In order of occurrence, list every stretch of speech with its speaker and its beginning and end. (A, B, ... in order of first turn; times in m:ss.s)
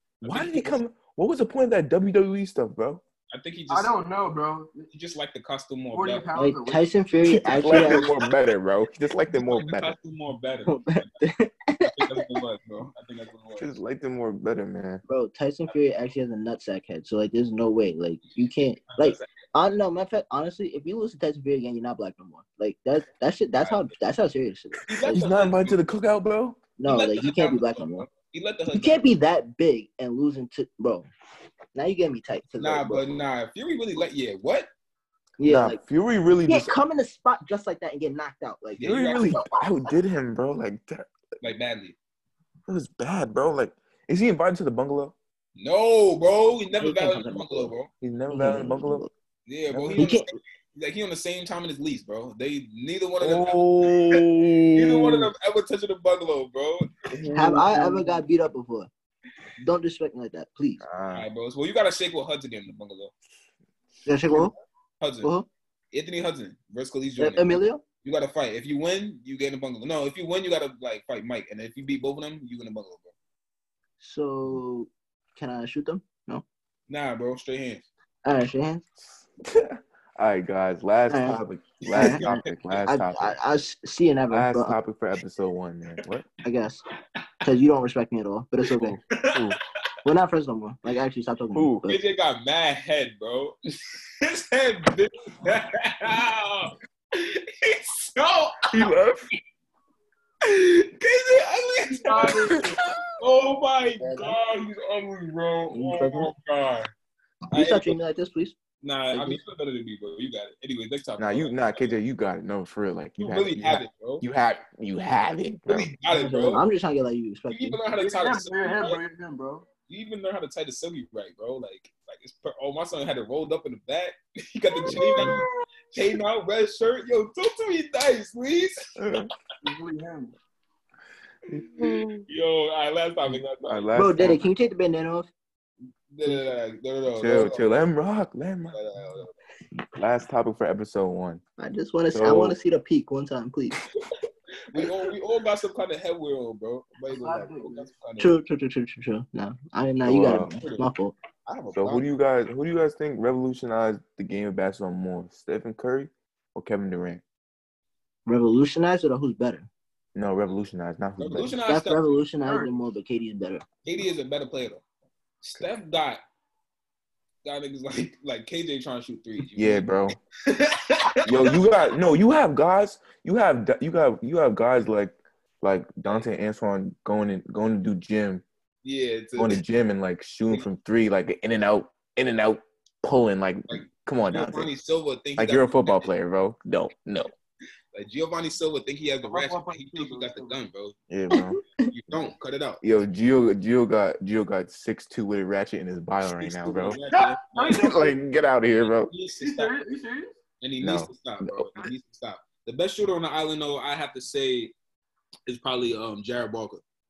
0:00.2-0:00.8 A
0:00.2-0:03.0 B
0:03.3-0:03.9 A
0:03.7-0:04.9 C
0:04.9-0:06.3 A
0:05.9-0:06.9 C
0:06.3-0:08.1 D
0:07.3-0:10.0 B
0:07.7-0:08.1 A
0:09.3-0:11.1 A
0:10.7-0:12.4 D
0:11.9-0:13.7 A
0:13.6-0:15.0 B
0:15.1-0:25.3 D
0:18.9-0:19.3 A
0:23.6-0:23.9 A
0:24.8-0:25.8 A
0:25.1-0:26.6 B
0:26.8-0:28.1 D
0:26.8-0:29.0 A
0:28.7-0:31.0 D
0:31.7-0:33.2 D
0:32.6-0:34.7 A
0:35.4-0:35.8 D
0:35.4-0:36.8 B
0:36.5-0:39.5 D
0:38.8-0:39.4 A
0:38.8-0:41.1 B
0:41.4-0:42.0 A
0:42.7-0:45.2 B
0:45.6-0:47.9 A
0:46.8-0:47.7 D
0:48.0-0:49.1 B
0:48.3-0:49.1 D
0:49.5-0:54.2 A
0:49.7-0:50.0 B
0:50.0-0:50.3 D
0:53.2-0:55.3 B
0:54.7-0:56.9 A
0:57.1-0:58.0 B
0:57.3-0:58.9 D
0:59.6-1:00.8 D
1:00.8-1:01.3 B
1:01.1-1:03.1 A
1:04.0-1:04.5 D
1:05.0-1:05.3 A
1:05.2-1:05.5 D
1:05.9-1:13.1 A
1:07.2-1:07.8 D
1:14.0-1:16.4 D
1:16.9-1:17.9 A
1:18.2-1:18.8 D
1:19.0-1:23.4 B
1:21.1-1:21.4 D
1:21.8-1:22.6 A
1:21.9-1:22.3 D
1:22.8-1:24.8 D
1:24.3-1:26.3 B
1:26.4-1:26.8 D
1:27.4-1:29.0 D
1:28.6-1:29.6 A
1:28.8-1:29.6 B
1:30.0-1:32.0 D
1:31.5-1:31.9 B
1:31.9-1:38.9 A
1:38.7-1:39.3 B
1:40.4-1:42.6 A
1:41.8-1:42.8 C
1:42.4-1:43.0 B
1:43.2-1:46.9 A
1:44.0-1:44.4 D
1:45.7-1:46.3 D
1:47.5-1:48.6 D
1:47.5-1:48.0 A
1:48.8-1:51.9 A
1:49.1-1:49.4 D
1:51.2-1:55.9 B
1:53.2-1:54.2 A
1:55.7-1:56.6 A
1:56.1-1:57.8 D
1:57.5-1:59.0 A
1:57.9-1:59.6 C
1:59.9-2:09.2 A
2:04.9-2:05.4 D
2:09.0-2:09.3 B
2:09.6-2:10.3 C
2:11.5-2:12.2 B
2:11.5-2:13.9 A
2:13.6-2:14.5 B
2:14.0-2:15.3 D
2:16.1-2:17.7 A
2:17.2-2:18.8 B
2:18.7-2:19.3 A
2:19.9-2:21.4 B
2:21.6-2:23.8 D
2:22.1-2:22.6 B
2:24.7-2:28.4 A
2:27.1-2:27.9 C
2:28.2-2:31.2 D
2:30.0-2:30.5 B
2:30.1-2:30.9 A
2:31.5-2:32.1 A
2:31.8-2:37.2 B
2:38.3-2:39.7 D
2:40.2-2:41.6 B
2:41.2-2:42.2 A
2:41.7-2:43.6 D
2:42.4-2:42.8 C
2:43.8-2:44.8 A
2:45.4-2:46.2 A
2:47.4-2:49.9 A
2:49.6-2:50.2 B
2:50.4-2:51.6 A
2:51.2-2:58.4 B
2:58.8-2:59.6 A
2:59.4-3:04.7 B
3:03.7-3:06.1 A
3:05.4-3:07.3 B
3:07.9-3:10.9 A
3:09.2-3:10.6 C
3:11.1-3:11.6 B
3:11.3-3:11.9 D
3:11.9-3:12.8 A
3:12.8-3:17.0 B
3:16.2-3:17.8 A
3:17.0-3:18.2 C
3:17.7-3:19.1 B
3:19.1-3:19.7 A
3:19.4-3:20.4 C
3:20.6-3:24.7 A
3:20.8-3:21.9 B
3:25.5-3:26.8 A